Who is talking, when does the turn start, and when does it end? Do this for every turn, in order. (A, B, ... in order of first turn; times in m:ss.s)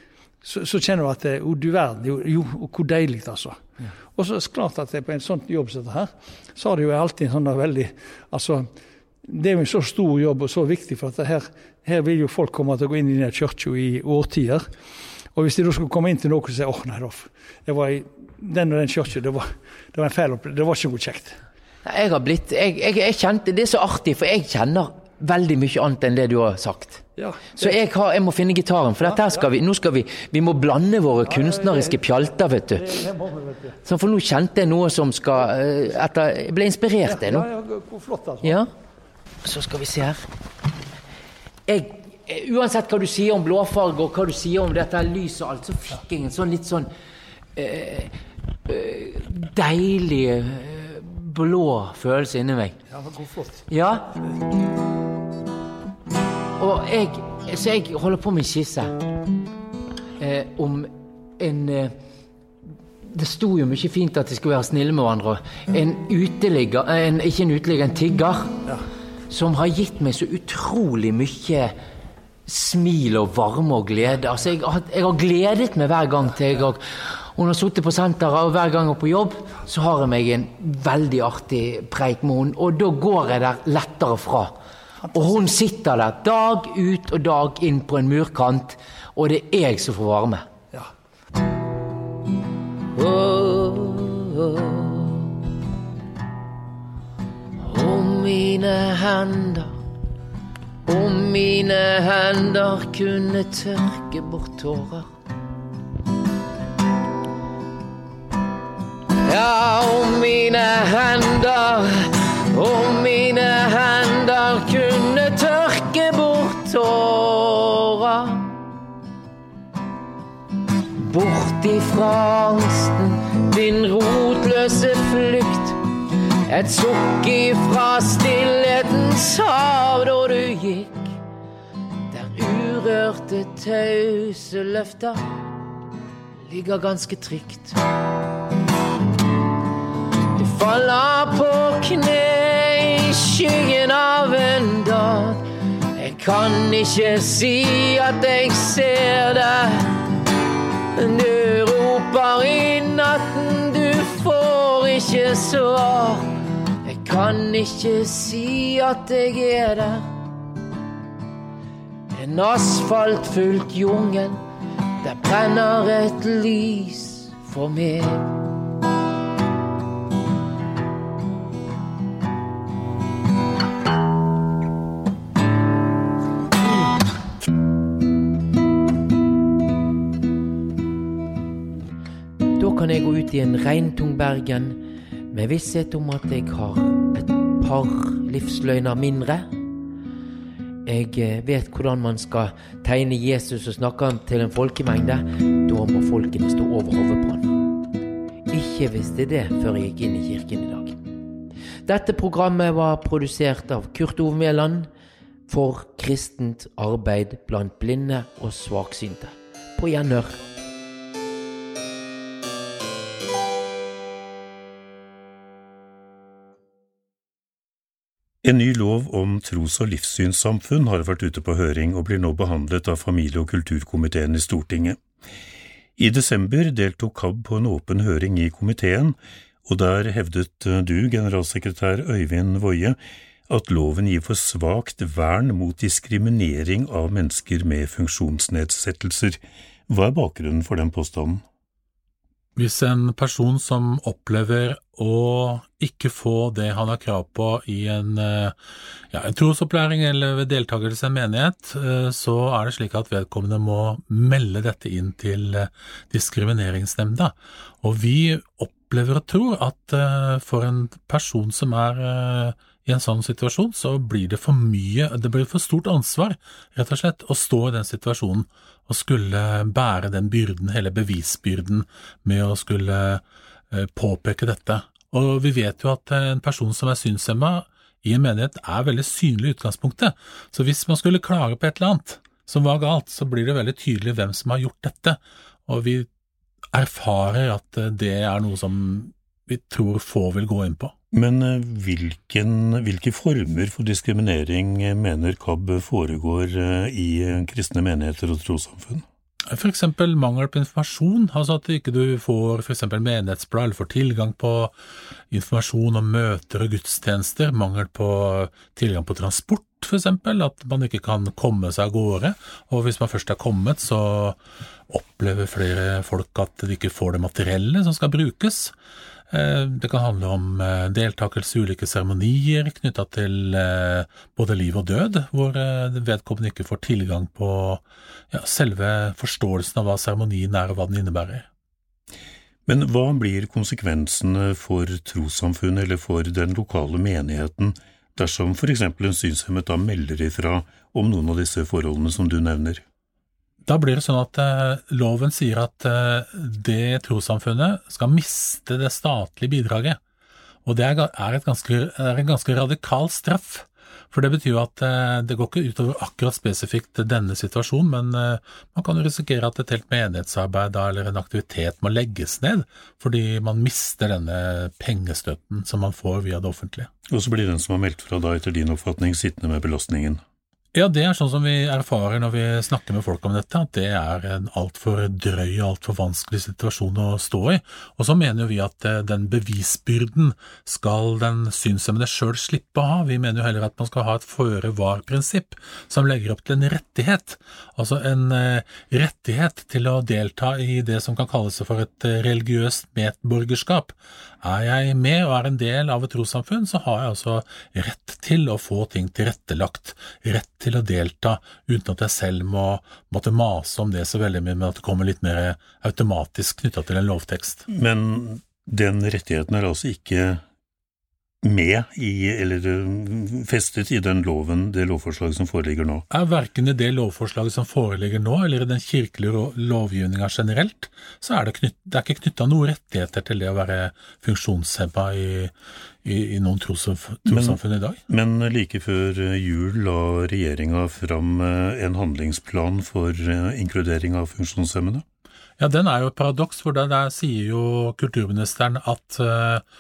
0:00.4-0:14.8 A
0:15.3-0:21.4 A
0:21.8-0:33.0 B
0:27.2-0:27.8 A
0:29.0-0:29.5 A
0:31.2-0:32.0 A
0:32.7-0:33.8 A
0:33.8-0:37.5 B
0:37.0-0:38.6 A
0:38.4-0:38.7 B
0:39.4-0:40.3 B
0:41.7-0:46.9 B
0:47.5-0:52.8 B
0:52.9-0:53.6 A
0:53.7-0:54.2 B
0:56.6-0:59.0 B
1:00.2-1:02.0 B
1:03.1-1:08.7 B
1:09.3-1:11.8 B
1:12.4-1:24.6 B
1:25.1-1:30.5 B
1:32.9-1:35.2 B
1:37.6-1:39.8 B
1:40.8-1:45.1 B
1:49.2-1:58.6 B
2:01.0-2:05.8 B
2:06.5-2:11.2 B
2:12.1-2:15.3 B
2:16.4-2:17.8 B
2:20.3-2:30.0 B
2:30.9-2:40.2 B
2:42.1-2:44.4 B
2:45.0-2:48.3 B
3:02.5-3:09.5 B
3:10.8-3:17.5 B
3:18.5-3:21.0 B
3:21.8-3:24.9 B
3:25.5-3:30.4 B
3:38.4-3:45.0 C
3:46.0-3:53.0 C
3:53.5-4:01.4 C
4:02.6-4:08.6 D
4:09.1-4:46.1 D
4:46.7-4:50.9 D
4:51.1-4:59.0 C
4:59.5-5:04.7 D
5:05.3-5:14.4 D
5:14.9-5:18.7 D
5:19.3-5:31.5 D
5:32.7-5:42.8 C
5:43.6-5:50.0 D
5:50.6-6:06.9 D
6:07.1-6:10.2 C
6:10.7-6:47.6 D
6:47.7-6:50.4 C
6:51.4-6:56.0 C
6:56.1-7:05.5 D
7:06.0-7:08.0 D
7:07.3-7:07.6 C
7:08.1-7:15.0 C
7:15.6-7:19.6 D